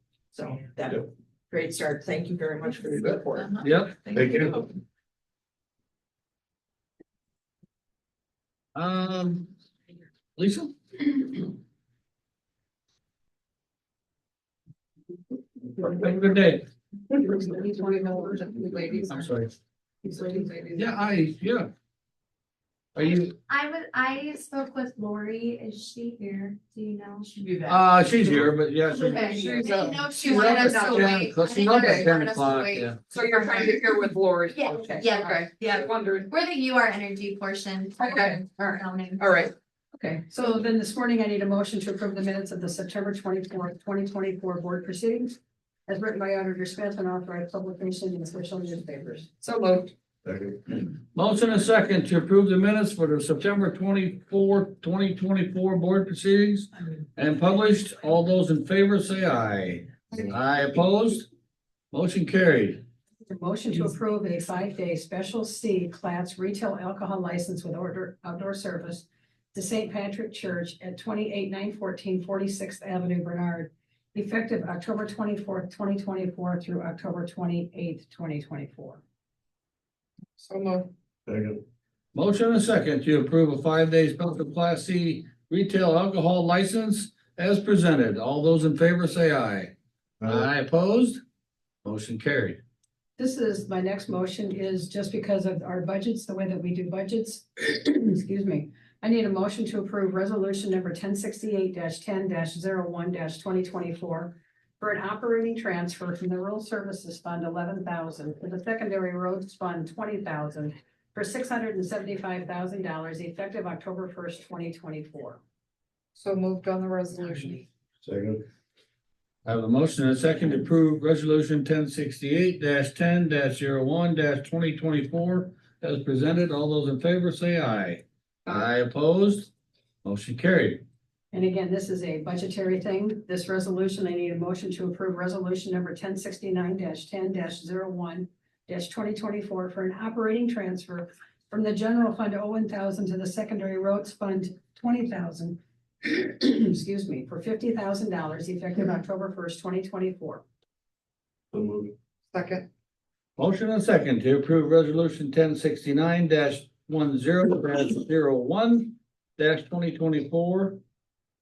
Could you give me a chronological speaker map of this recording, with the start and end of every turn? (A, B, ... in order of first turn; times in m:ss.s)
0:00.3-0:04.6 A
0:03.6-0:04.0 B
0:04.1-0:04.6 C
0:08.7-0:09.5 B
0:10.4-0:11.4 B
0:15.8-0:16.6 B
0:17.3-0:18.5 D
0:17.5-0:19.3 E
0:19.1-0:19.5 B
0:20.0-0:21.1 E
0:20.7-0:21.7 B
0:22.9-0:23.3 B
0:23.0-0:27.3 F
0:27.4-0:27.8 E
0:27.6-0:33.0 B
0:28.4-0:32.1 E
0:29.0-0:39.3 F
0:33.1-0:36.3 E
0:38.0-0:39.5 E
0:40.0-0:45.4 D
0:45.9-0:49.3 D
0:49.4-0:49.9 E
0:50.2-0:50.7 C
0:51.1-1:01.3 B
1:01.9-1:02.8 B
1:03.2-1:19.0 D
1:20.4-1:20.9 E
1:21.2-1:21.6 C
1:22.1-1:29.7 B
1:30.2-1:30.5 C
1:30.3-1:31.2 B
1:31.8-1:32.6 B
1:33.2-1:55.4 D
1:56.2-1:57.6 E
1:58.0-1:58.4 C
1:59.4-2:09.5 B
2:10.0-2:10.8 B
2:11.3-2:30.4 D
2:31.5-2:31.9 C
2:32.3-2:32.6 E
2:33.4-2:40.8 B